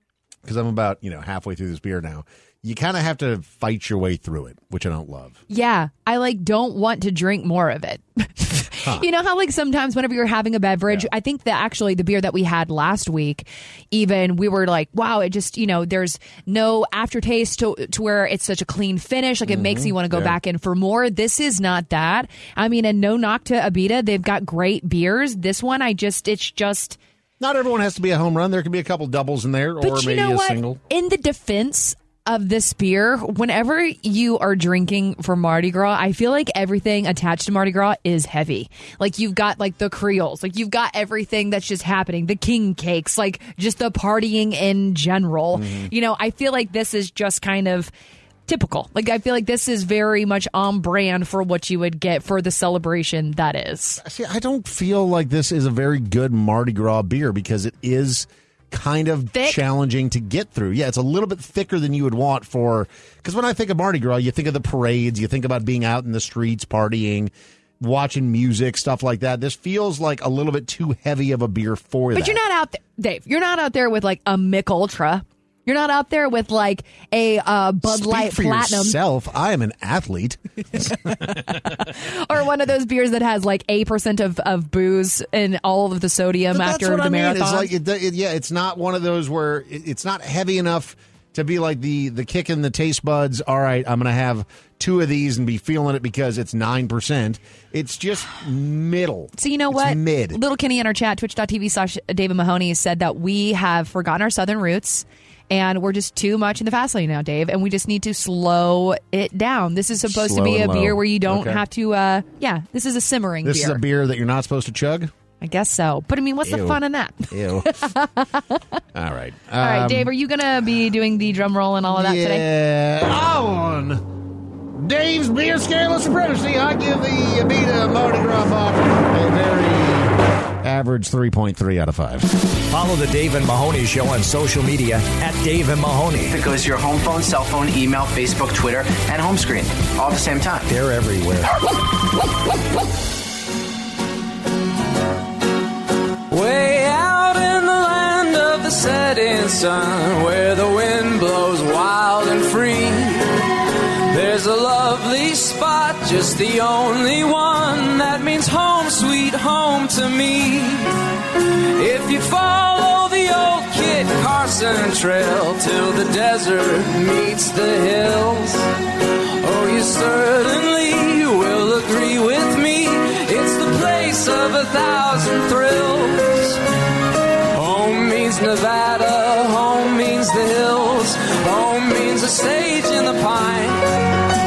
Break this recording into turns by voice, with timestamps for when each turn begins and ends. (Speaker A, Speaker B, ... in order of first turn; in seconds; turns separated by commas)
Speaker A: 0.4-5.4, Speaker B: 5.5-27.0, Speaker A: 19.4-20.4, Speaker A: 27.4-30.8, Speaker B: 29.8-47.9, Speaker A: 45.5-45.9, Speaker B: 48.5-54.0, Speaker A: 54.0-72.4, Speaker B: 72.1-79.0, Speaker A: 77.8-81.7, Speaker B: 81.8-87.7, Speaker A: 86.5-100.4, Speaker B: 99.3-113.8, Speaker A: 110.0-111.6, Speaker A: 113.4-115.1, Speaker B: 115.4-118.8, Speaker A: 116.4-116.8, Speaker A: 117.3-117.8, Speaker A: 118.9-120.1, Speaker B: 119.6-122.4, Speaker A: 121.9-124.0, Speaker A: 124.7-132.3, Speaker C: 132.7-136.4, Speaker D: 136.2-140.7, Speaker C: 140.7-141.5, Speaker E: 146.3-176.6, Speaker E: 177.5-184.2